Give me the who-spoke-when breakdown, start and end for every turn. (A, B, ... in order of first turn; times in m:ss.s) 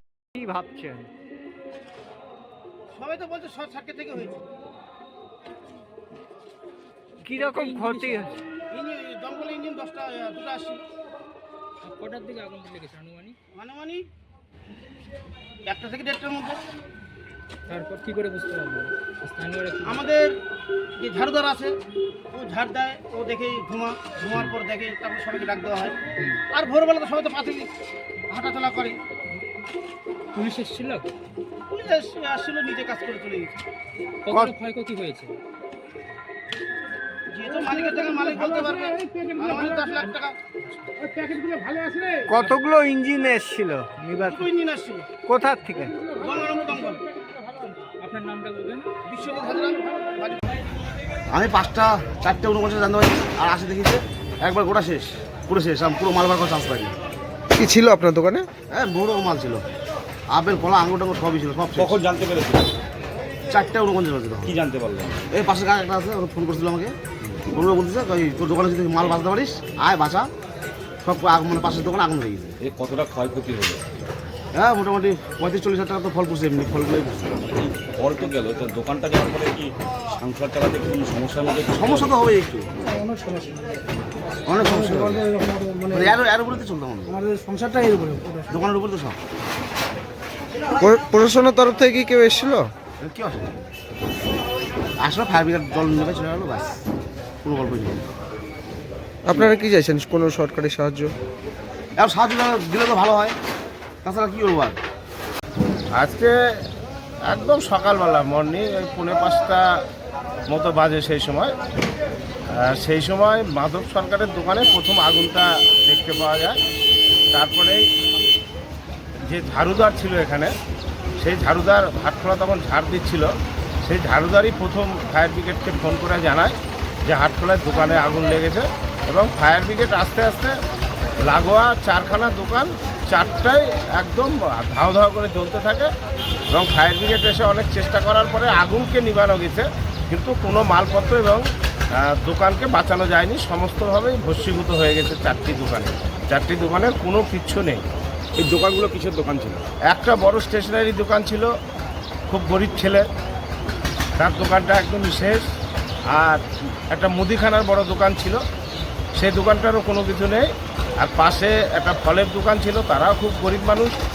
0:00.4-0:01.1 A
0:02.9-0:04.4 B
0:07.2-0:08.3 A
0:07.3-0:08.4 C
0:08.7-0:10.8 B
0:11.8-0:13.4 C
0:13.5-0:14.0 B
0:15.7-0:16.6 B
0:17.7-0:20.0 C
0:19.9-0:20.3 B
0:21.0-0:21.7 B
0:22.3-0:26.0 B
0:26.2-0:26.4 C
0:26.5-0:27.7 B
0:28.3-0:29.0 B
0:30.3-0:31.1 C
0:31.7-0:33.5 B
0:34.3-0:35.4 C
0:37.3-0:40.4 B
0:42.3-0:44.5 A
0:44.2-0:45.1 B
0:45.2-0:46.2 A
0:46.2-0:47.0 B
0:48.0-0:48.9 C
0:49.1-0:50.4 B
0:51.3-0:57.0 D
0:57.6-0:58.5 E
0:58.7-0:59.6 D
1:00.3-1:02.0 D
1:01.8-1:02.7 F
1:03.5-1:04.6 D
1:04.4-1:05.2 F
1:05.3-1:10.3 D
1:11.0-1:12.6 D
1:12.6-1:13.8 F
1:14.6-1:17.4 D
1:17.6-1:22.2 F
1:21.7-1:22.7 D
1:24.5-1:29.2 D
1:30.8-1:32.7 E
1:33.0-1:33.6 D
1:35.0-1:36.7 D
1:37.4-1:38.1 D
1:39.2-1:41.1 E
1:42.0-1:43.4 D
1:44.0-1:44.8 D
1:45.9-1:46.3 G
1:47.3-1:49.6 G
1:50.5-1:51.6 G
1:52.6-1:56.6 G
1:57.3-1:57.8 G
1:59.2-2:00.5 G
2:01.2-2:03.3 G
2:03.8-2:06.6 G
2:07.1-2:10.6 G
2:11.2-2:15.9 G
2:16.5-2:21.4 G
2:22.0-2:27.8 G
2:28.4-2:29.7 F
2:29.8-2:31.5 G
2:32.3-2:33.1 G
2:34.2-2:35.5 G
2:36.1-2:38.4 G
2:39.2-2:40.5 G
2:41.0-2:44.0 G